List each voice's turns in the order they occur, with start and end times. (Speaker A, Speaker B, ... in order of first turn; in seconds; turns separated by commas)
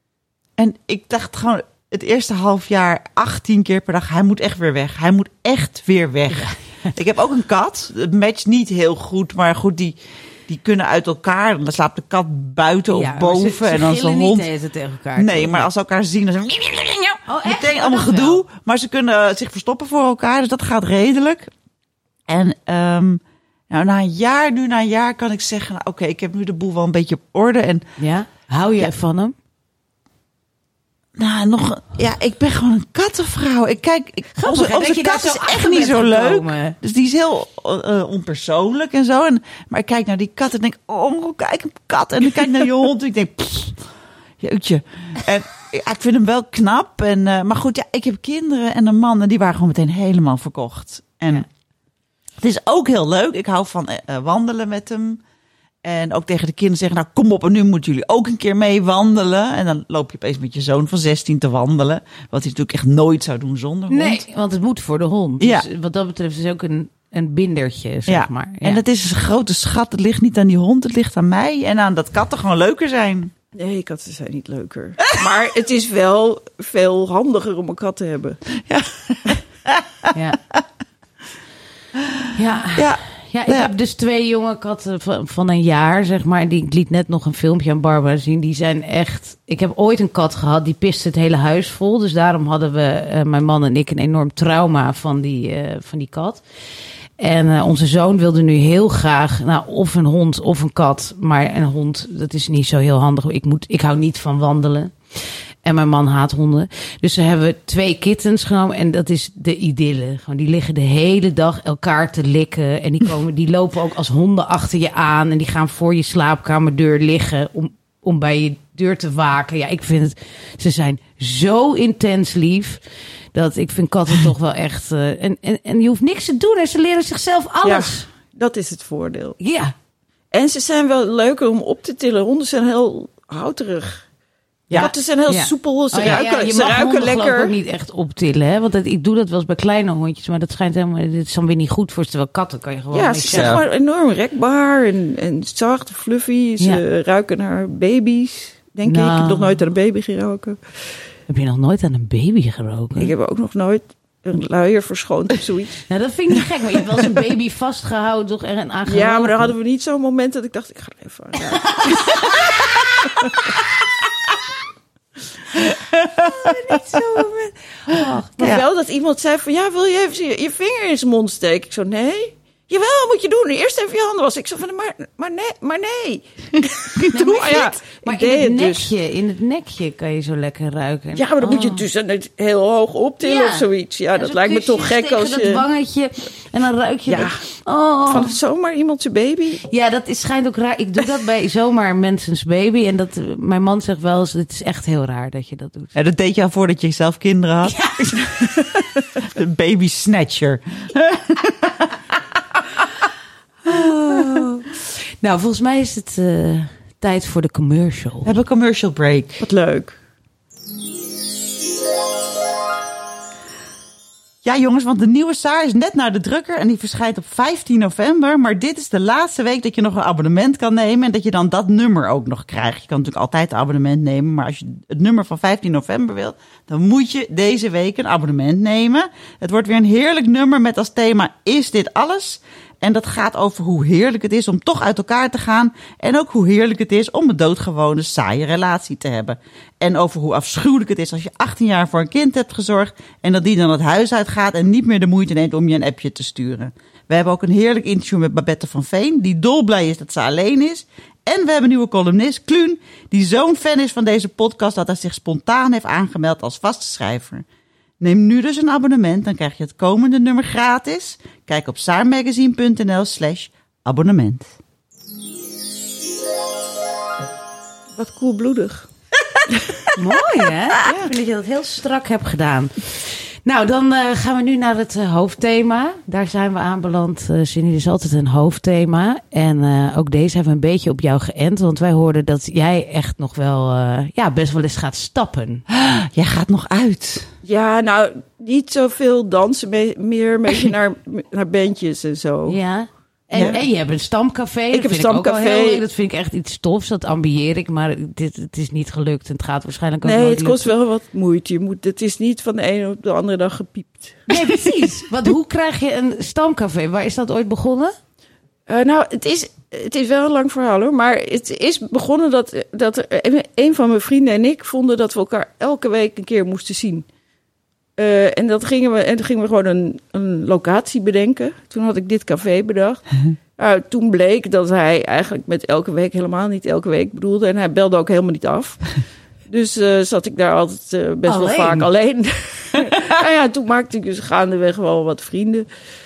Speaker A: 0.6-14.5, Speaker B: 12.9-15.7, Speaker A: 15.2-21.5, Speaker B: 17.3-18.4, Speaker A: 22.3-27.9, Speaker B: 28.0-29.4, Speaker A: 31.2-43.8, Speaker B: 34.4-36.8, Speaker A: 44.4-51.5, Speaker A: 52.4-55.2, Speaker A: 55.8-64.2, Speaker B: 63.9-68.8, Speaker A: 65.4-65.7, Speaker A: 68.1-73.3, Speaker C: 73.5-78.4, Speaker A: 78.6-80.6, Speaker B: 80.1-80.4, Speaker A: 82.0-82.2, Speaker B: 82.3-96.4, Speaker A: 82.8-83.7, Speaker B: 97.2-104.9, Speaker B: 105.6-122.8, Speaker B: 123.3-128.1, Speaker C: 127.6-129.4, Speaker B: 129.4-129.7, Speaker C: 130.3-134.0, Speaker C: 134.7-137.5, Speaker B: 134.7-143.6, Speaker C: 142.9-150.6, Speaker A: 143.3-143.6, Speaker B: 148.9-149.6, Speaker B: 151.3-153.1, Speaker C: 153.0-155.8, Speaker B: 155.9-159.5, Speaker C: 158.9-162.4, Speaker B: 161.7-162.2, Speaker A: 165.6-166.5, Speaker B: 166.2-168.6, Speaker A: 167.9-168.6, Speaker C: 168.4-178.9, Speaker B: 177.1-181.8, Speaker C: 181.2-185.7, Speaker B: 183.2-188.3, Speaker C: 187.1-187.4, Speaker C: 188.1-189.6, Speaker B: 189.7-195.9, Speaker A: 195.9-202.2, Speaker B: 197.7-198.2, Speaker B: 203.7-208.3, Speaker A: 208.2-209.4, Speaker C: 209.4-210.0, Speaker A: 214.4-257.4, Speaker A: 258.0-264.5, Speaker C: 268.0-268.9, Speaker C: 269.5-269.8, Speaker B: 269.9-285.6, Speaker C: 270.9-271.1, Speaker A: 285.7-287.3, Speaker C: 287.4-292.6, Speaker B: 292.5-300.7, Speaker A: 293.3-293.6, Speaker C: 294.7-295.8, Speaker C: 300.0-304.3, Speaker B: 304.3-307.9, Speaker C: 308.7-317.1, Speaker C: 318.0-323.0, Speaker C: 323.6-328.9, Speaker C: 329.5-335.7, Speaker B: 331.3-331.9